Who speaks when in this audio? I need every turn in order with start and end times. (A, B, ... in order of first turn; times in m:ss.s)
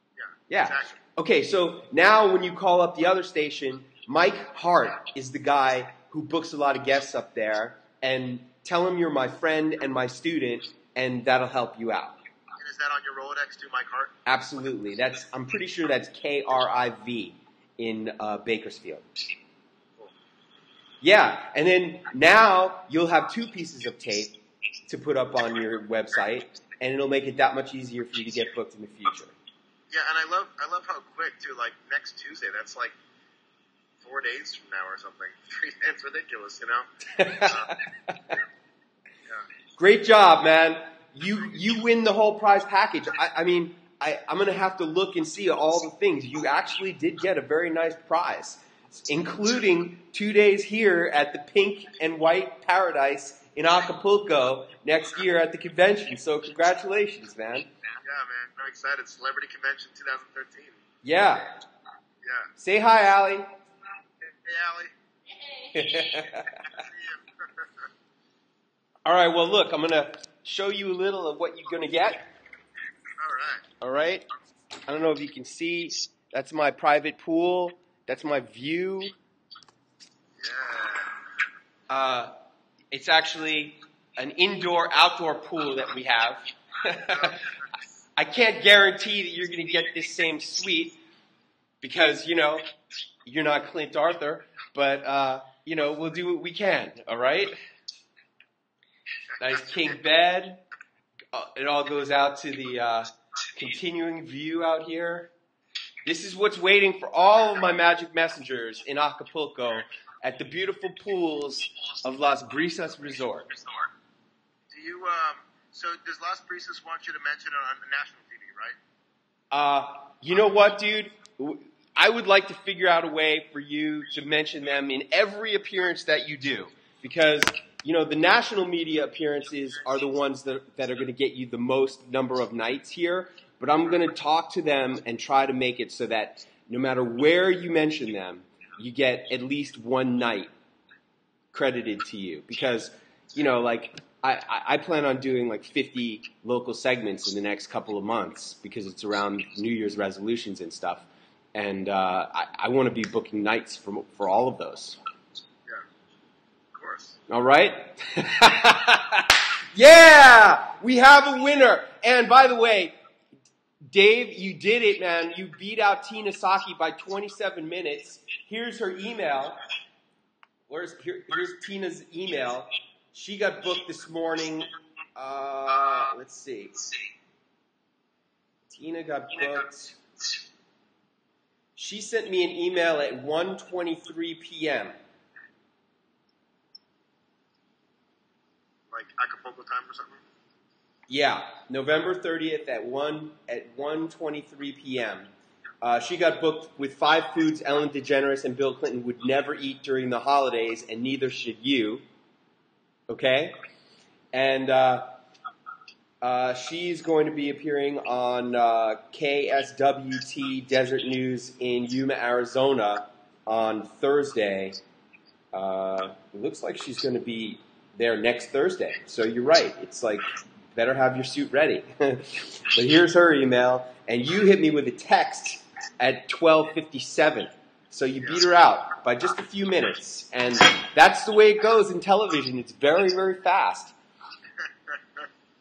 0:00.2-0:01.0 A
0:00.5-0:12.2 B
0:12.6-0:14.1 A
0:14.2-0:19.0 B
0:21.0-0:29.3 B
0:29.9-0:32.9 A
0:34.0-0:36.9 A
0:37.1-0:37.6 B
0:37.4-0:37.8 A
0:39.8-0:57.7 B
0:58.0-1:00.8 A
1:01.0-1:01.5 B
1:02.2-1:02.5 A
1:02.6-1:03.5 B
1:04.2-1:04.9 A
1:05.7-1:06.6 B
1:06.6-1:07.7 A
1:09.0-1:12.3 B
1:13.2-1:13.6 A
1:13.8-1:14.2 B
1:14.9-1:19.1 B
1:20.4-1:21.1 A
1:21.9-1:22.3 B
1:22.9-1:27.5 B
1:27.0-1:27.4 A
1:28.2-1:31.0 B
1:31.8-1:32.6 B
1:33.2-1:37.5 B
1:39.4-1:40.6 B
1:41.3-1:45.3 B
1:46.0-1:53.6 B
1:54.7-1:58.8 A
1:59.5-2:20.5 B
2:21.5-2:35.0 B
2:36.7-2:37.2 A
2:37.3-2:42.9 B
2:43.8-2:49.6 B
2:50.7-2:56.8 B
2:58.7-3:00.0 B
3:01.8-3:04.9 B
3:08.9-3:10.2 A
3:11.1-3:15.3 B
3:15.8-3:22.0 B
3:23.1-3:23.5 B
3:24.3-3:25.1 B
3:26.2-3:34.8 B
3:35.5-3:53.9 B
3:54.9-3:55.2 A